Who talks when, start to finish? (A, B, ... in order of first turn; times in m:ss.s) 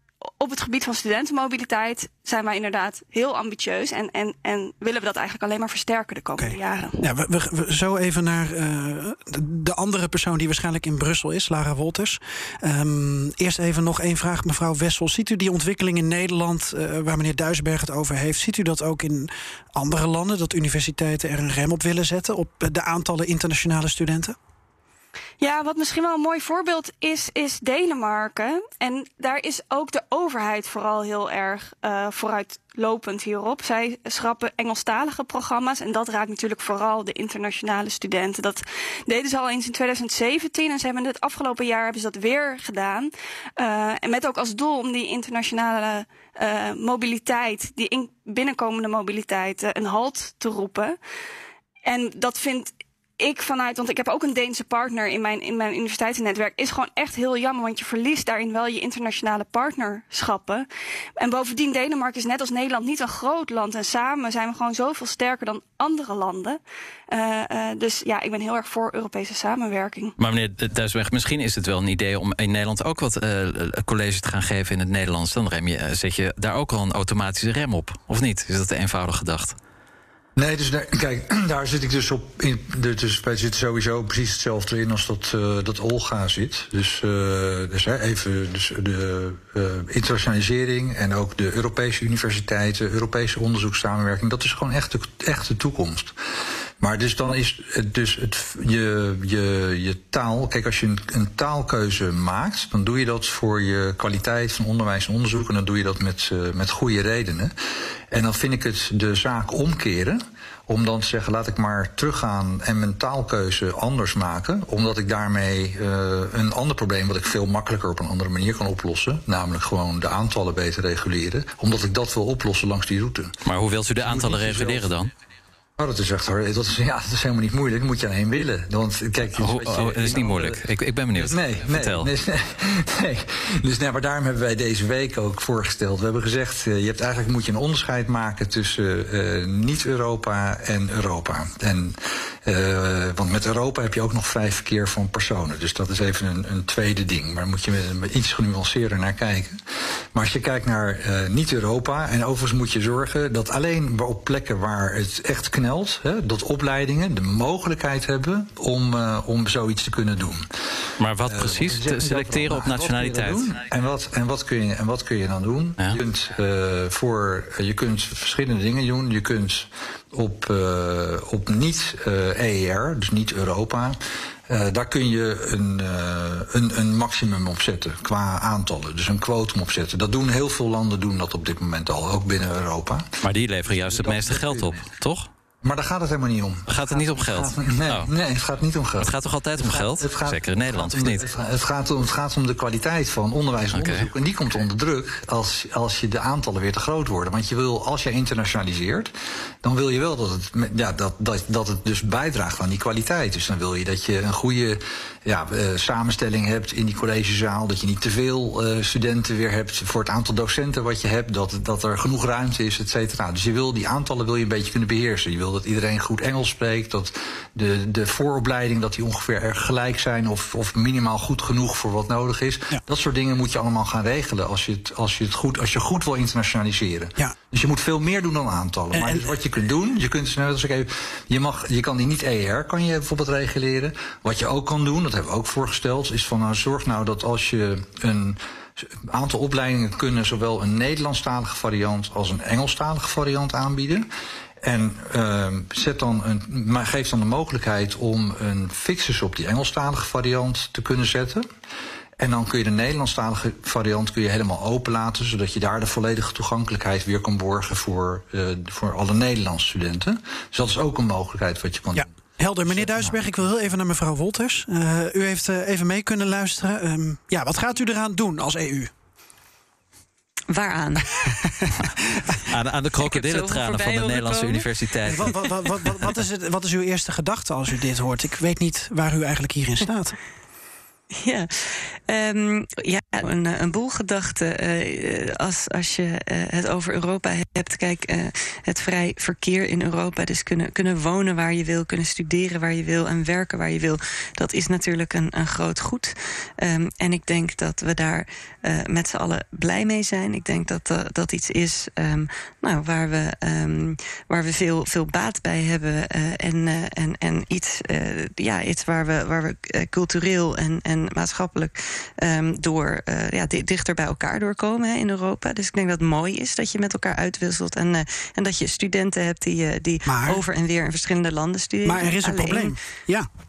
0:00.4-0:07.0 A
0:06.4-0:24.4 B
0:25.4-0:51.0 A
0:51.8-1:10.1 A
1:10.2-1:19.6 C
1:20.4-1:36.1 D
1:36.8-1:47.5 D
1:48.1-2:03.4 D
2:03.4-2:05.1 C
2:04.0-2:04.9 D
2:05.8-2:10.6 D
2:09.3-2:12.1 C
2:11.1-2:29.6 D
2:30.1-2:40.5 D
2:41.0-2:43.5 C
2:41.2-3:03.2 D
3:03.2-3:05.3 C
3:03.7-3:04.8 D
3:05.6-4:04.1 D
3:06.7-3:08.1 C
3:09.0-3:11.2 C
3:13.7-3:14.1 C
3:48.9-3:49.2 B
4:04.6-4:11.4 D
4:12.2-4:22.1 D
4:21.9-4:28.9 B
4:22.7-4:23.1 D
4:30.5-4:31.1 E
4:31.2-4:32.2 B
4:32.5-4:35.9 C
4:33.0-4:34.7 E
4:35.0-4:40.2 B
4:41.2-5:22.7 E
5:20.1-5:20.4 B
5:21.8-5:23.3 B